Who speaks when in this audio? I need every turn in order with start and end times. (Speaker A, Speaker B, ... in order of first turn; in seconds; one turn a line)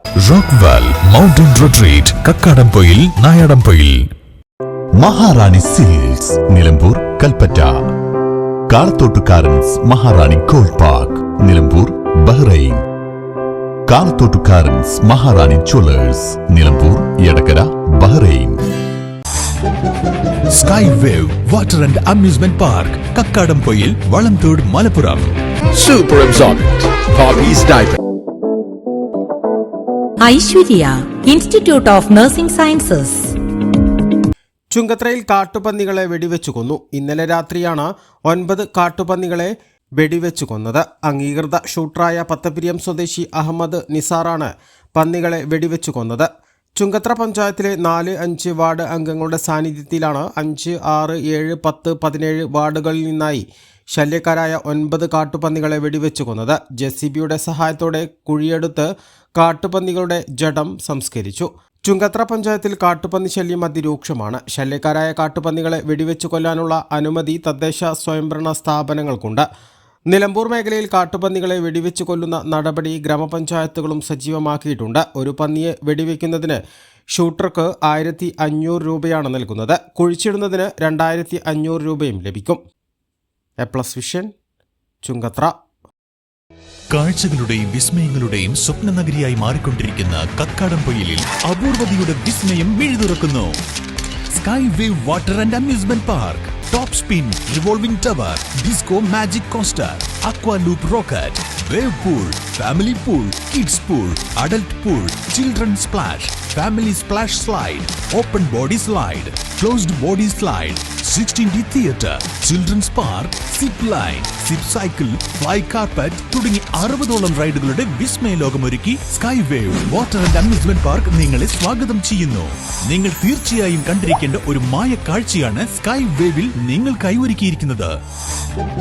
Speaker A: 0.2-4.1
Speaker B: 5.0-7.8
Speaker B: 8.7-12.8
Speaker B: 13.9-18.6
Speaker A: 20.5-25.4
Speaker C: 25.7-28.0
Speaker D: 30.2-33.4
Speaker E: 34.7-69.5
Speaker E: 70.1-76.6
Speaker E: 77.1-82.6
Speaker E: 83.6-84.3
Speaker E: 85.0-85.5
Speaker A: 86.9-93.6
Speaker A: 94.3-128.0